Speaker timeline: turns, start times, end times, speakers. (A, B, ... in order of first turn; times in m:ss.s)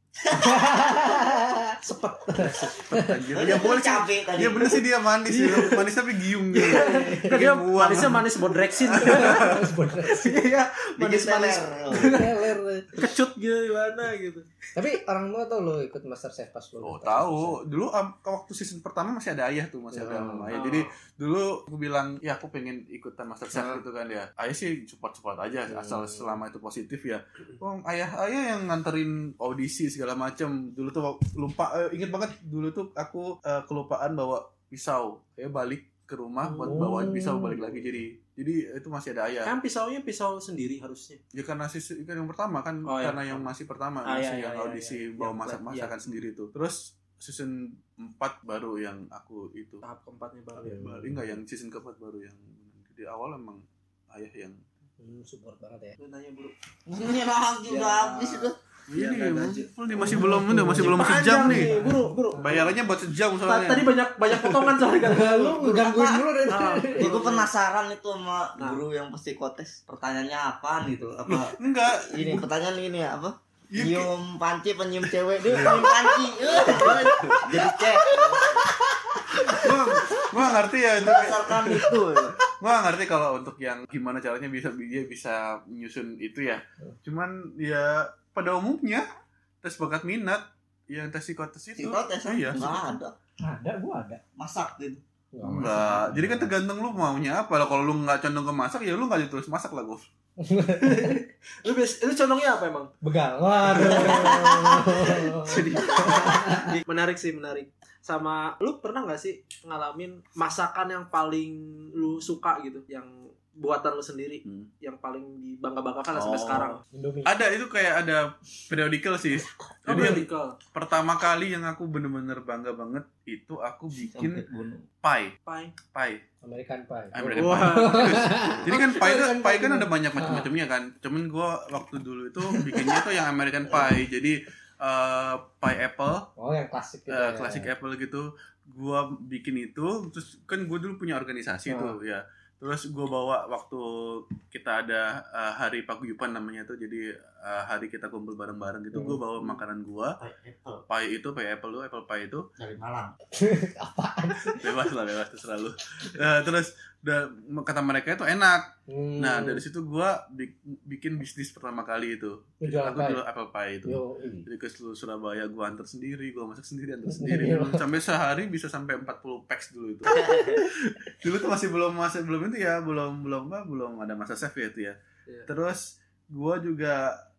0:00.2-0:00.6 A
0:00.4-0:03.2 B
0:01.8-0:02.7 C
0:02.9-0:09.7 D
0:03.3-0:04.8 A
0:05.3-0:05.8 C
0:06.5-0:12.3 C
0:06.6-0:07.4 B
0:08.9-0:10.5 B
0:11.0-0:12.2 A
0:11.9-0:13.1 B
0:12.9-0:14.5 C
0:14.8-0:17.6 B
0:16.8-0:39.5 D
0:19.9-0:20.6 B
0:20.5-0:20.9 C
0:23.5-0:23.8 B
0:25.7-0:26.4 B
0:36.4-0:36.9 C
0:36.6-0:37.8 B
0:39.5-0:41.2 C
0:41.3-0:49.8 D
0:42.8-0:43.5 C
0:44.0-0:46.2 C
0:49.8-0:50.8 C
0:50.6-0:54.6 D
0:50.6-0:51.2 B
0:55.0-0:56.0 B
0:56.0-0:56.5 C
0:56.9-0:58.6 A
0:57.7-1:02.7 C
0:58.9-1:01.8 D
0:59.9-1:02.7 B
1:02.4-1:04.8 D
1:03.4-1:05.8 C
1:05.0-1:07.2 B
1:05.5-1:06.3 A
1:06.5-1:07.5 C
1:07.0-1:18.6 A
1:11.3-1:12.4 D
1:13.7-1:14.1 D
1:15.0-1:17.8 D
1:18.2-1:18.7 B
1:19.5-1:21.9 D
1:21.0-1:22.4 A
1:22.4-1:29.0 D
1:29.6-1:32.8 D
1:31.8-1:33.2 A
1:33.4-1:34.2 B
1:34.4-1:35.0 A
1:35.3-1:36.5 B
1:35.4-1:40.0 D
1:40.4-1:41.2 B
1:40.8-1:42.9 C
1:43.0-1:46.7 B
1:43.7-1:44.4 C
1:43.7-1:45.4 A
1:45.4-1:56.8 C
1:56.1-2:04.4 D
1:56.9-1:57.4 B
1:59.8-2:00.6 C
1:59.9-2:00.2 B
2:04.1-2:04.8 A
2:05.0-2:05.4 D
2:05.5-2:05.8 C
2:05.9-2:06.2 D
2:06.4-2:10.5 B
2:07.1-2:16.3 D
2:07.4-2:08.2 C
2:16.4-2:17.7 B
2:17.1-2:30.2 D
2:21.7-2:22.0 B
2:28.9-2:29.2 B
2:30.2-2:30.8 A
2:30.9-2:32.5 D
2:32.6-2:33.2 A
2:33.4-2:34.9 B
2:34.4-2:57.2 D
2:38.9-2:39.6 B
2:42.6-2:43.2 B
2:43.9-2:44.5 B
2:47.1-2:47.8 B
2:50.2-2:50.6 B